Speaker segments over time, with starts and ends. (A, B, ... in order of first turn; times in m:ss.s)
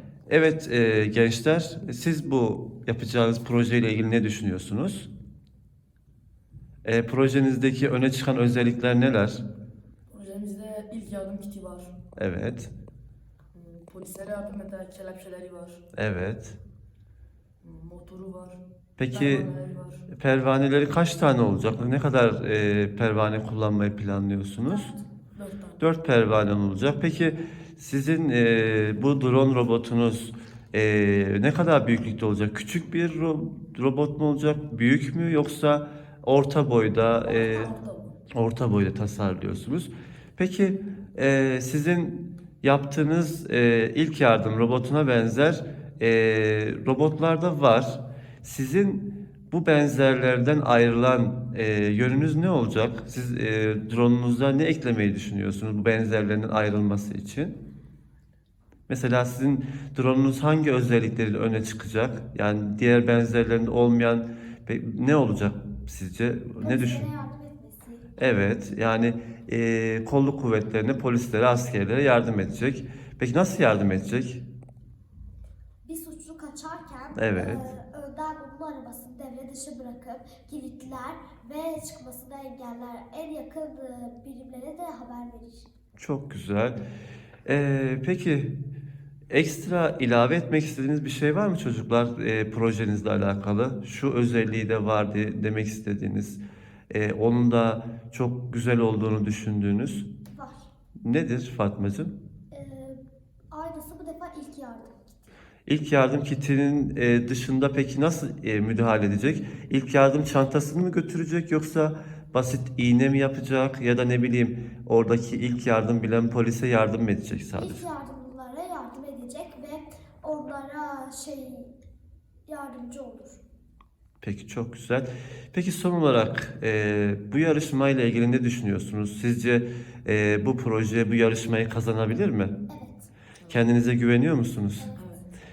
0:00.3-0:05.1 A
0:06.8-0:09.4 A
0:10.1-0:12.0 B
0:12.2-0:12.7 A
0:13.5-0:15.8 B
0:15.9-0:16.6 A
0:17.6-0:20.1 B
0:19.0-0:19.5 A
0:20.1-0:24.9 A
0:24.7-0:25.0 C
0:25.3-0:25.8 B
0:25.8-0:37.7 A
0:37.2-0:38.2 B
0:38.3-0:57.6 A
0:58.9-1:07.0 A
1:06.6-1:08.1 C
1:08.2-1:14.4 A
1:15.8-1:25.7 C
1:17.2-1:17.6 A
1:26.0-1:26.8 A
1:27.4-1:28.5 A
1:29.3-1:36.4 A
1:36.9-1:40.1 A
1:40.3-1:40.7 C
1:41.0-1:42.1 A
1:42.5-1:45.3 C
1:45.7-1:57.8 A
1:57.6-2:01.7 C
2:02.5-2:03.4 C
2:04.2-2:12.5 A
2:12.7-2:13.1 C
2:13.4-2:13.7 B
2:13.5-2:14.9 A
2:14.8-2:15.0 C
2:15.0-2:15.2 B